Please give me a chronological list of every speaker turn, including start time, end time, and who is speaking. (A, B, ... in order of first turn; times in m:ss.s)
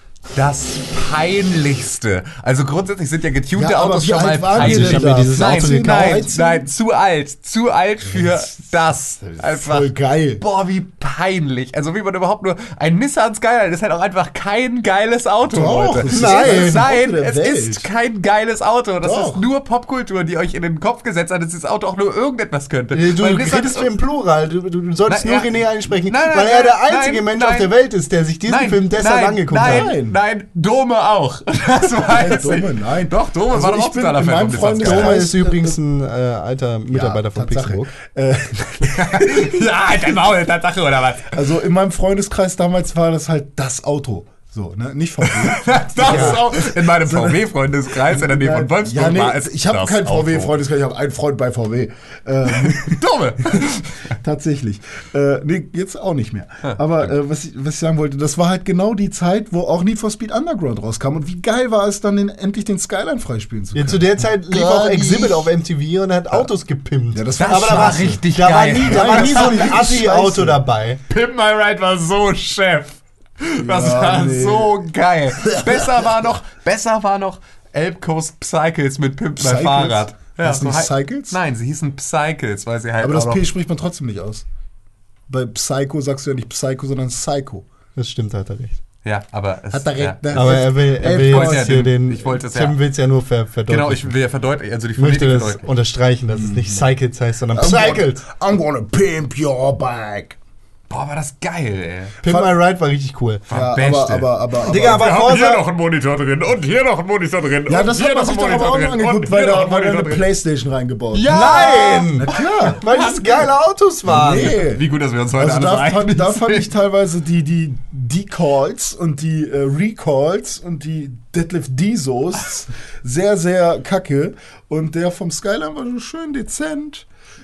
0:00.3-0:23.9 A
0:03.6-0:06.7 B
0:04.6-0:06.2 C
0:08.1-0:08.5 B
0:09.4-0:10.4 B
0:15.5-0:17.9 B
0:16.1-0:16.9 C
0:19.0-0:19.4 B
0:22.9-0:29.9 C
0:25.1-0:27.7 A
0:28.5-0:35.3 A
0:29.6-0:30.2 B
0:32.1-0:35.8 B
0:34.8-0:37.9 C
0:36.9-0:39.6 B
0:38.8-0:41.4 A
0:41.3-0:53.0 B
0:45.2-0:50.5 A
0:46.0-0:46.4 C
0:52.5-0:54.2 A
0:53.5-1:05.5 B
1:03.7-1:11.0 C
1:07.1-1:08.2 B
1:07.4-1:09.8 A
1:08.8-1:10.6 B
1:11.1-1:23.5 A
1:13.6-1:14.9 B
1:15.4-1:16.2 B
1:19.4-1:21.4 B
1:23.0-1:24.4 B
1:25.3-1:27.7 B
1:28.0-1:28.8 C
1:29.0-1:32.8 A
1:29.7-1:31.8 B
1:30.3-1:34.1 C
1:33.7-1:35.6 A
1:35.0-1:38.2 C
1:36.3-1:36.9 B
1:37.5-1:40.4 B
1:40.9-1:42.2 A
1:42.2-1:42.5 B
1:42.2-1:43.4 C
1:43.5-1:50.3 A
1:43.5-1:45.2 B
1:44.7-1:45.6 C
1:47.7-1:52.8 B
1:51.1-1:53.4 A
1:51.3-1:54.6 C
1:54.0-1:54.8 B
1:54.6-1:56.7 A
1:55.4-2:07.1 B